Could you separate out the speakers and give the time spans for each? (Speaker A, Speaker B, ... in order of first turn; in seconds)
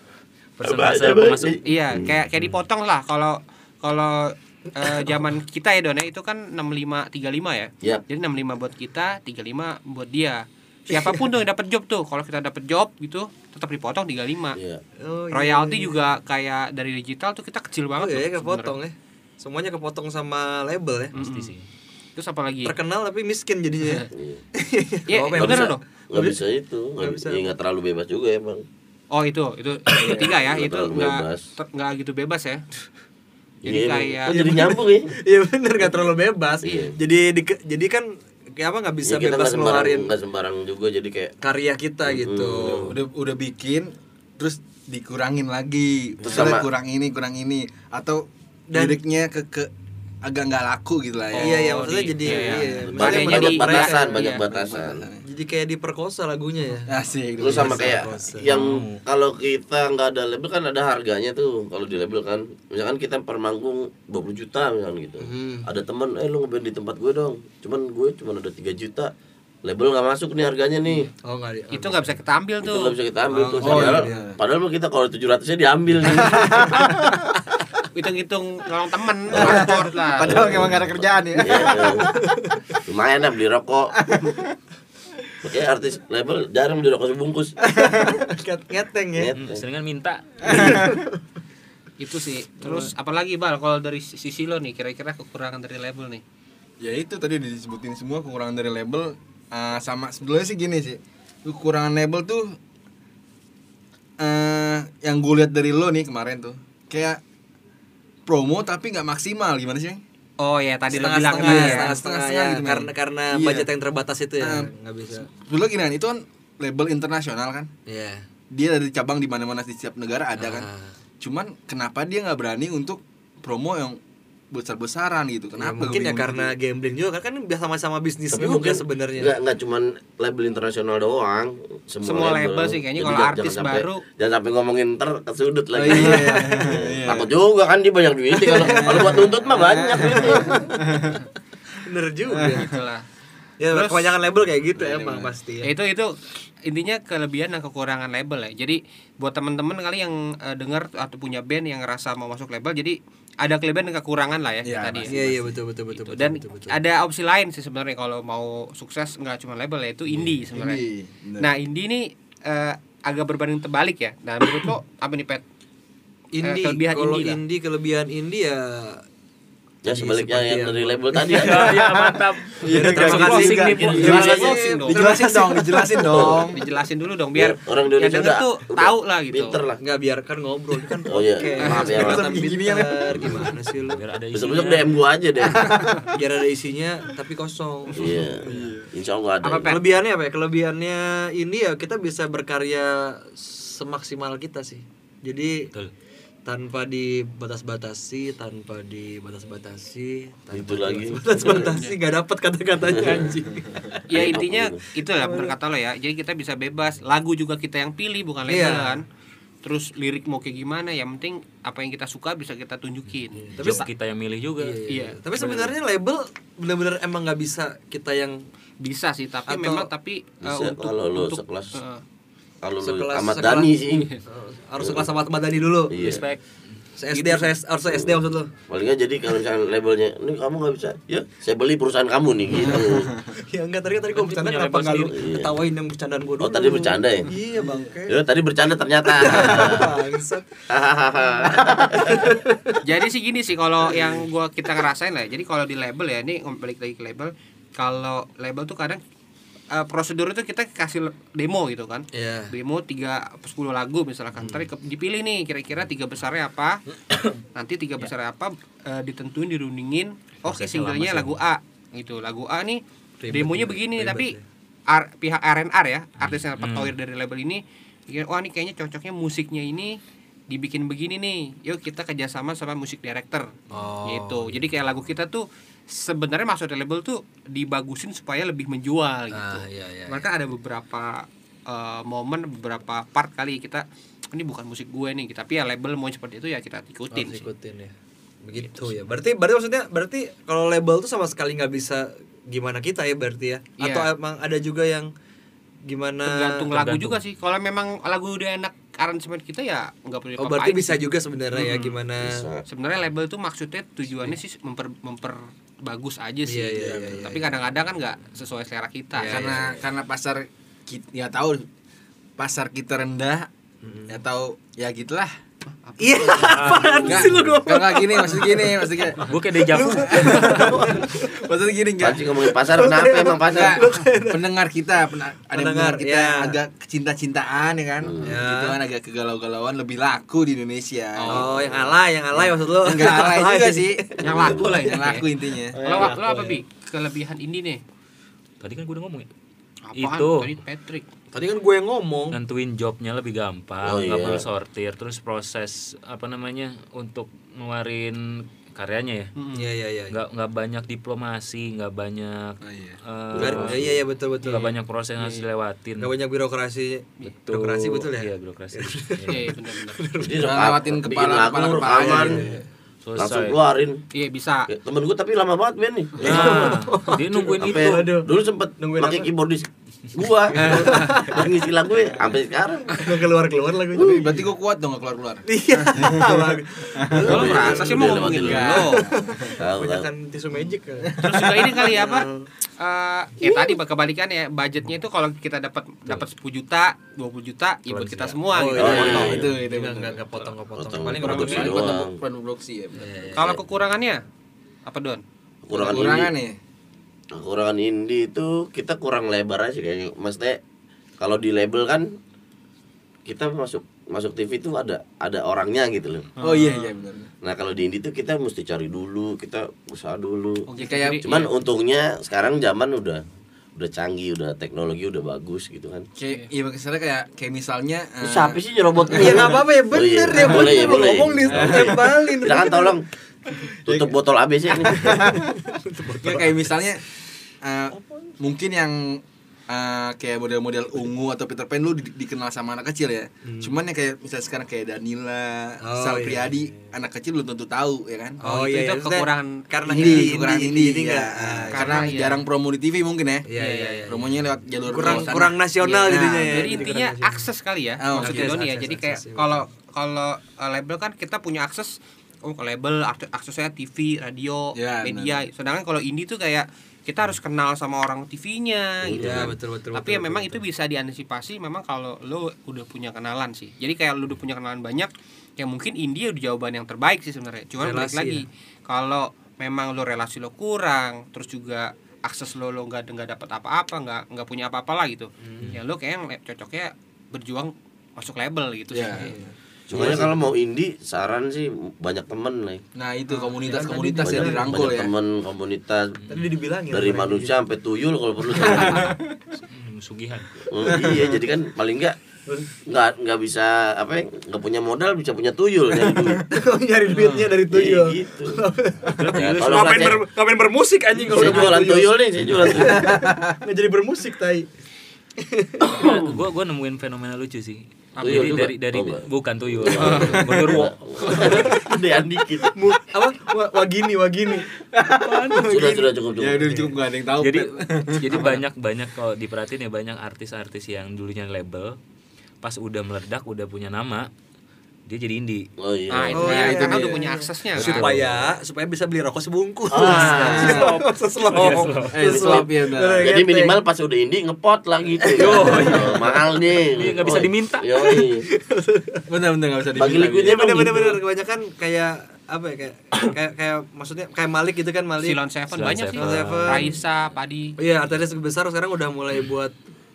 Speaker A: 0.6-1.6, 21.1-21.7, 58.4-59.0, 89.4-90.8, 171.3-174.6, 183.9-184.9, 213.6-214.8, 225.9-226.4, 234.1-235.2, 260.4-261.4, 266.2-266.9, 296.7-297.2, 316.4-317.4, 319.2-320.8, 338.6-339.3, 339.9-340.6, 342.3-349.3, 350.1-353.9, 354.4-356.1, 357.2-359.5, 363.0-363.6, 366.2-368.1, 387.9-388.9, 489.6-490.6, 497.1-497.5, 499.1-500.2, 505.9-511.7, 517.4-522.0, 522.6-524.3, 525.1-525.7, 527.8-528.1, 530.4-532.2, 535.7-536.0, 536.9-537.9, 545.7-547.0
Speaker B: 0.6-2.1, 14.5-14.8, 24.1-24.4, 25.4-28.6, 30.3-31.5, 33.6-35.1, 36.6-37.0, 39.0-41.3, 42.0-43.0, 46.2-46.7, 52.8-55.0, 57.4-69.1, 69.6-71.1, 72.6-77.0, 79.3-79.7, 80.2-82.1, 82.9-84.1, 85.4-87.6, 89.2-89.6, 128.3-140.7, 169.8-171.8, 173.6-174.4, 176.1-176.5, 177.3-179.8, 181.1-182.5, 183.2-183.4, 184.3-185.9, 187.9-189.8, 200.5-201.7, 202.8-203.4, 204.1-204.8, 220.4-221.8, 222.6-224.1, 224.8-225.1, 225.9-226.2, 227.9-228.2, 228.7-233.2, 235.2-235.5, 236.4-237.3, 238.1-239.9, 240.7-242.3, 302.2-302.6, 322.0-323.8, 328.0-328.4, 331.3-331.9, 334.2-334.9, 343.8-344.4, 353.3-354.0, 360.2-362.4, 363.2-364.0, 364.7-366.7, 367.6-373.2, 377.2-378.8, 379.6-380.1, 388.8-389.5, 390.8-392.2, 395.6-396.3, 397.3-400.6, 401.2-402.2, 403.3-406.3, 407.4-410.7, 411.2-413.2, 413.8-416.1, 418.2-423.1, 423.9-425.3, 459.1-459.6, 479.9-482.8, 484.2-486.2, 486.9-489.2, 490.7-492.2, 492.9-496.5, 497.7-498.6, 499.4-500.2, 501.3-503.1, 505.8-506.4, 508.2-512.8, 515.7-516.7, 525.8-526.8, 529.9-530.9, 532.2-538.5, 540.0-541.2
Speaker C: 1.6-14.6, 15.3-18.8, 21.1-21.6, 22.2-22.8, 25.1-25.8, 29.1-32.6, 33.6-34.5, 51.3-54.4, 71.7-73.0, 77.9-80.4, 92.0-96.2, 110.4-112.0, 132.0-134.0, 142.4-143.0, 143.7-144.1, 145.6-146.1, 146.7-155.2, 156.0-160.8, 161.4-165.4, 166.4-167.4, 173.9-175.1, 176.5-179.6, 181.6-182.0, 189.4-189.8, 201.4-202.0, 204.1-209.1, 209.6-213.9, 214.9-215.2, 218.8-222.0, 223.9-224.2, 242.8-249.0, 249.7-256.8, 257.6-264.4, 264.9-287.5, 288.6-288.9, 293.8-294.1, 296.2-301.9, 302.7-309.5, 315.8-317.0, 334.2-337.8, 339.9-341.1, 349.4-349.7, 359.3-360.1, 364.1-364.7, 377.2-379.1, 381.2-389.3, 393.4-394.2, 394.9-395.2, 406.4-406.9, 410.7-411.5, 438.4-440.3, 441.7-442.4, 443.6-444.1, 445.0-479.3, 508.2-508.6, 526.1-528.1, 545.2-547.8
Speaker D: 10.9-11.2, 15.0-16.0, 18.0-21.2, 22.6-26.4, 27.0-27.5, 34.3-40.1, 41.4-43.0, 48.7-49.0, 51.4-54.3, 55.2-58.5, 65.2-65.7, 71.2-72.2, 73.3-74.3, 81.8-82.8, 87.7-89.3, 90.5-91.2, 110.9-115.3, 117.9-118.3, 120.4-121.0, 125.6-129.3, 135.8-136.7, 138.5-139.2, 140.1-140.8, 141.8-142.7, 143.6-145.7, 155.1-156.8, 166.3-169.0, 169.9-171.8, 172.6-176.1, 179.8-184.0, 186.1-188.7, 189.6-195.7, 196.5-204.4, 205.1-205.6, 208.5-209.0, 213.3-213.9, 214.6-218.5, 219.5-219.9, 222.8-226.1, 227.0-228.5, 232.6-238.2, 239.1-240.5, 241.5-242.8, 252.1-252.5, 254.4-254.7, 263.2-264.4, 273.7-274.5, 279.3-280.3, 287.1-295.1, 295.9-296.7, 300.4-302.5, 306.5-307.5, 309.1-309.8, 313.8-314.2, 316.0-321.4, 322.4-324.5, 325.5-326.6, 328.2-328.8, 331.2-334.2, 335.8-336.6, 341.3-342.4, 349.5-350.2, 353.4-354.7, 356.0-360.7, 361.9-362.6, 366.2-369.3, 370.6-371.6, 372.9-374.4, 375.5-382.5, 388.5-391.9, 393.0-393.6, 419.1-423.0, 424.8-426.7, 433.4-433.8, 435.8-436.6, 438.4-442.0, 443.5-444.2, 444.9-447.5, 448.1-449.6, 459.1-460.6, 467.8-468.4, 475.4-475.8, 479.1-479.5, 483.3-484.9, 486.3-487.6, 496.5-504.7, 505.4-505.9, 512.8-514.7, 515.2-516.9, 526.3-533.8, 535.2-536.4, 538.0-539.2, 540.4-545.4, 546.2-546.9, 547.8-549.8
Speaker E: 30.0-30.3, 42.8-49.7, 50.2-51.9, 54.2-55.2, 56.9-58.1, 73.6-74.4, 76.2-77.2, 79.3-82.1, 84.0-84.5, 87.8-88.2, 90.5-91.0, 96.8-102.6, 104.2-107.2, 108.3-110.0, 111.3-113.7, 114.4-114.7, 115.3-117.7, 118.5-120.7, 121.2-124.0, 124.5-126.5, 135.8-137.3, 138.5-141.2, 142.4-142.7, 144.8-145.3, 154.6-155.6, 160.2-161.5, 171.7-176.6, 181.7-183.5, 185.4-186.1, 188.2-188.9, 232.6-233.3, 237.6-237.9, 306.8-307.2, 309.2-311.6, 312.4-313.5, 314.1-315.3, 317.1-319.2, 320.1-322.4, 323.5-331.5, 332.4-335.8, 352.6-353.0, 360.3-362.6, 373.9-379.6, 381.1-381.9, 388.8-390.2, 391.2-393.3, 395.7-396.6, 406.4-407.3, 410.9-411.2, 416.2-419.6, 420.3-422.2, 423.9-424.2, 424.8-425.6, 426.2-427.0, 427.6-438.4, 439.9-443.5, 444.1-446.8, 448.0-448.6, 454.8-455.4, 478.9-480.3, 482.9-485.1, 488.7-489.2, 490.9-491.4, 496.0-496.4, 502.8-503.6, 510.1-511.8, 514.8-518.6, 526.5-527.2, 530.2-531.0, 532.0-533.3, 539.3-540.8